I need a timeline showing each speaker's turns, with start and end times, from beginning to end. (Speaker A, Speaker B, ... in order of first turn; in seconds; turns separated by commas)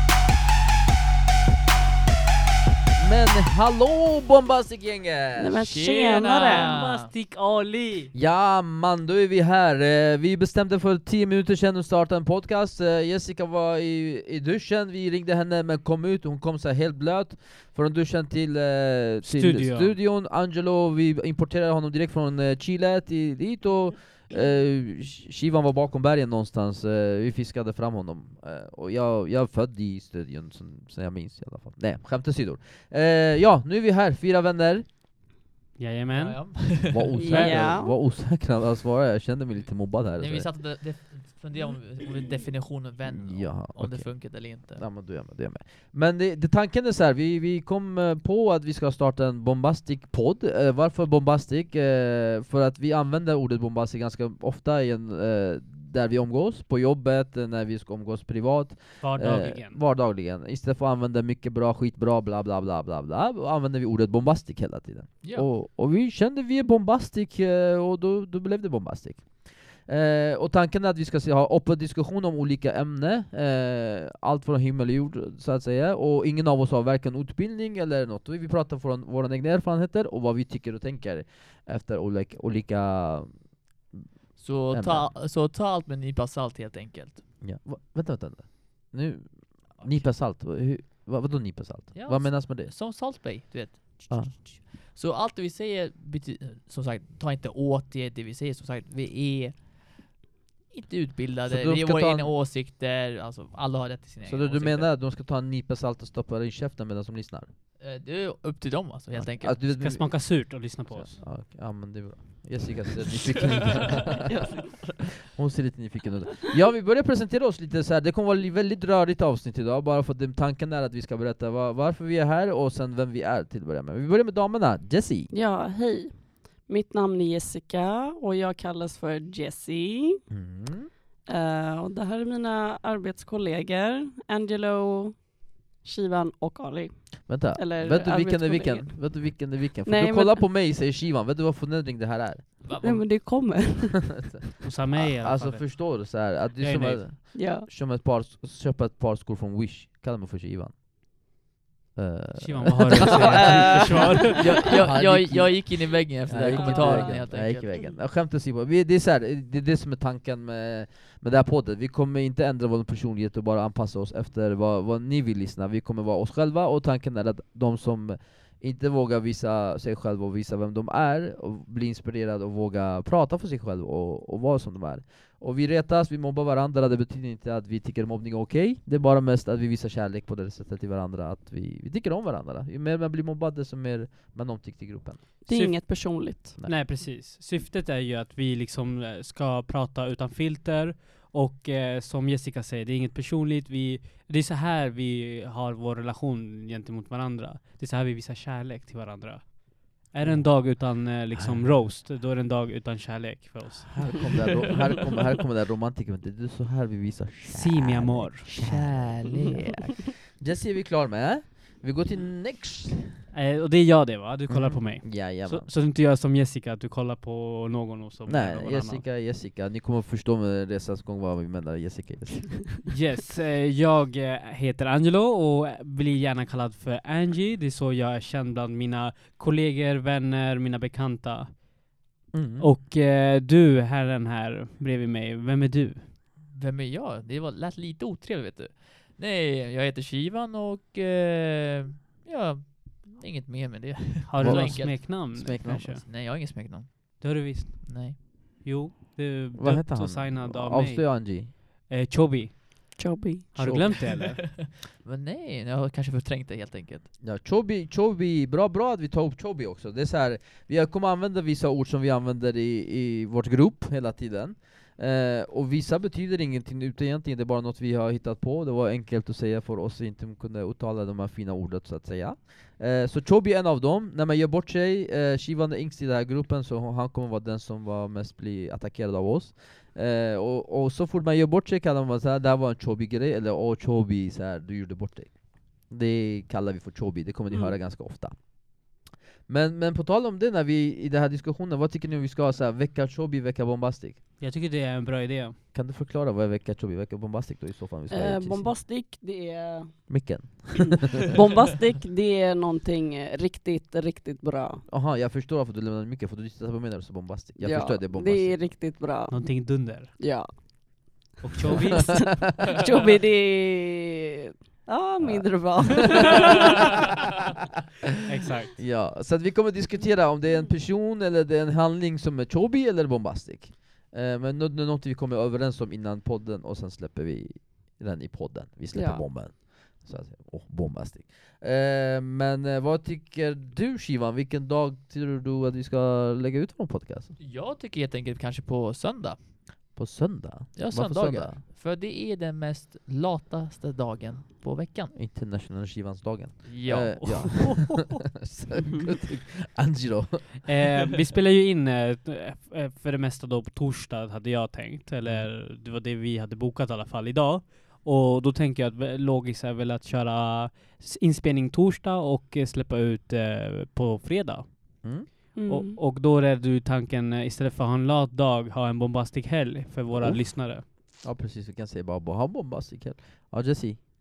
Speaker A: 3.0-5.6, Speaker B: 5.4-6.7, Speaker C: 5.6-7.1, Speaker D: 5.9-8.1, Speaker A: 8.1-34.9, Speaker D: 19.2-20.0, Speaker D: 35.8-36.6, Speaker C: 36.1-37.6, Speaker A: 36.9-40.5, Speaker B: 37.2-37.9, Speaker D: 37.3-37.6, Speaker C: 40.1-44.8, Speaker A: 43.0-84.0, Speaker D: 59.0-59.8, Speaker C: 65.2-65.5, Speaker C: 84.4-87.3, Speaker A: 84.7-85.1, Speaker A: 87.4-92.7, Speaker C: 89.8-90.1, Speaker C: 91.9-100.2, Speaker A: 94.1-94.3, Speaker C: 100.7-104.9, Speaker A: 101.5-102.3, Speaker A: 104.2-107.5, Speaker C: 107.8-109.6, Speaker A: 109.2-125.3, Speaker D: 109.7-111.2, Speaker B: 114.3-115.0, Speaker B: 125.3-130.2, Speaker A: 130.3-130.9, Speaker B: 131.2-140.4, Speaker A: 137.3-142.5, Speaker C: 142.6-143.2, Speaker B: 142.8-144.3, Speaker D: 144.6-146.1, Speaker A: 144.9-150.7, Speaker D: 146.6-147.0, Speaker B: 147.3-147.7, Speaker A: 151.9-185.2, Speaker D: 152.4-154.6, Speaker C: 154.6-157.8, Speaker B: 156.5-157.1, Speaker D: 156.6-157.1, Speaker B: 185.5-186.5, Speaker D: 185.5-186.1, Speaker D: 186.6-204.8, Speaker A: 200.2-201.7, Speaker A: 203.9-213.2, Speaker D: 207.5-208.5, Speaker C: 208.4-209.8, Speaker D: 213.3-219.0, Speaker A: 214.5-215.7, Speaker A: 218.3-222.8, Speaker D: 222.8-231.7, Speaker A: 232.3-232.7, Speaker D: 232.6-236.1, Speaker C: 236.5-248.2, Speaker D: 244.3-246.1, Speaker A: 244.4-245.9, Speaker D: 247.2-252.5, Speaker A: 249.6-251.5, Speaker B: 253.0-253.6, Speaker D: 253.6-254.4, Speaker A: 253.6-254.0, Speaker C: 254.9-257.1, Speaker A: 257.2-294.2, Speaker D: 294.4-295.6, Speaker A: 295.7-298.7, Speaker B: 298.1-300.6, Speaker A: 300.1-301.1, Speaker B: 301.3-304.8, Speaker A: 304.9-308.8, Speaker B: 307.6-316.8, Speaker D: 309.3-310.1, Speaker D: 311.4-312.4, Speaker A: 315.2-316.0, Speaker D: 318.3-318.8, Speaker A: 318.8-337.3, Speaker B: 328.9-329.2, Speaker C: 337.4-339.5, Speaker A: 339.9-341.6, Speaker C: 340.8-345.1, Speaker A: 345.1-350.7, Speaker C: 346.6-347.7, Speaker D: 350.6-370.8, Speaker A: 365.0-365.3, Speaker B: 365.6-366.0, Speaker A: 370.1-374.0